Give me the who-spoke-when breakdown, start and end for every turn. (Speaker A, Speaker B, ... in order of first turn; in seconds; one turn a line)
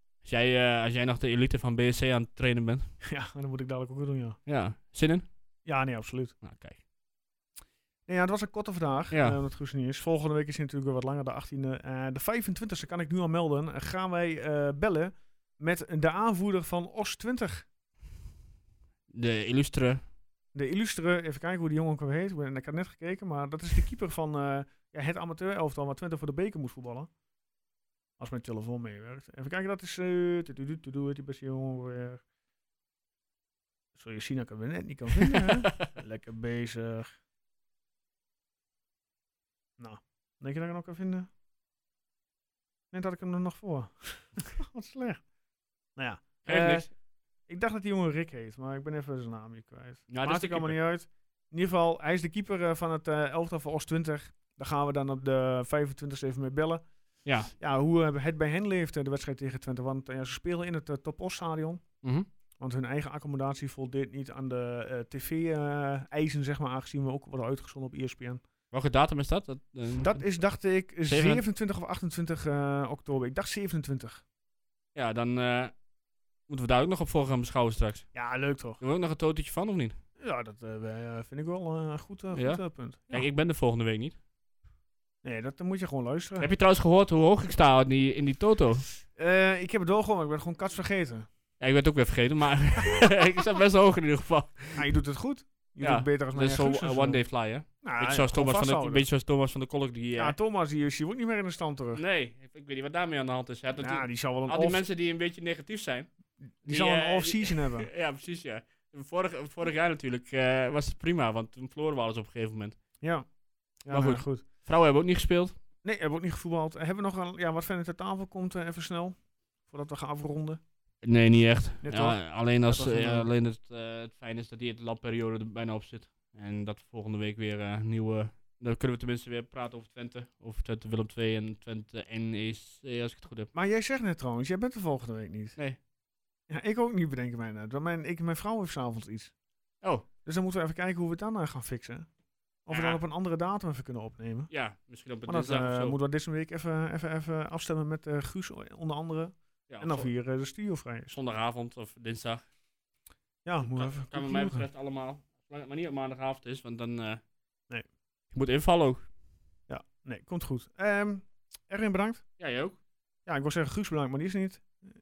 Speaker A: 0.2-2.9
Speaker B: 3.0-4.4
Speaker A: 4.5-5.3
Speaker B: 5.6-6.3
Speaker A: 6.4-6.8
Speaker B: 8.1-17.7
Speaker A: 9.1-9.4
Speaker A: 19.1-20.0
Speaker B: 20.5-27.1
Speaker B: 28.2-32.2
Speaker B: 34.0-37.1
Speaker A: 35.2-35.9
Speaker B: 39.8-41.3
Speaker B: 42.9-45.2
Speaker B: 46.0-46.9
Speaker A: 46.5-46.9
Speaker B: 47.5-56.8
Speaker A: 50.1-50.8
Speaker A: 57.2-57.5
Speaker B: 57.6-61.8
Speaker A: 62.0-62.3
Speaker B: 62.6-68.4
Speaker A: 68.7-70.2
Speaker B: 70.0-74.2
Speaker A: 71.0-71.4
Speaker A: 74.9-75.7
Speaker A: 76.5-78.1
Speaker B: 78.1-78.8
Speaker A: 78.8-80.0
Speaker B: 80.2-83.3
Speaker A: 82.3-84.2
Speaker B: 85.2-86.5
Speaker A: 86.4-88.8
Speaker B: 89.2-91.3
Speaker A: 91.6-94.9
Speaker B: 94.8-97.2
Speaker A: 95.8-100.4
Speaker B: 97.8-99.1
Speaker B: 100.2-102.0
Speaker A: 101.9-106.1
Speaker B: 103.8-104.8
Speaker B: 106.6-107.9
Speaker A: 106.6-112.8
Speaker B: 113.0-113.3
Speaker B: 113.8-114.4
Speaker A: 113.9-115.5
Speaker B: 115.8-120.6
Speaker A: 121.0-133.5
Speaker B: 121.8-123.3
Speaker B: 133.5-135.6
Speaker B: 136.5-139.3
Speaker B: 140.2-142.1
Speaker B: 142.7-144.5
Speaker A: 142.7-143.0
Speaker A: 144.5-146.0
Speaker B: 145.2-151.1
Speaker A: 149.7-150.1
Speaker A: 151.1-152.4
Speaker B: 153.4-154.7
Speaker A: 153.6-157.2
Speaker A: 158.3-159.1
Speaker B: 159.7-162.2
Speaker A: 162.4-162.8
Speaker B: 163.2-164.9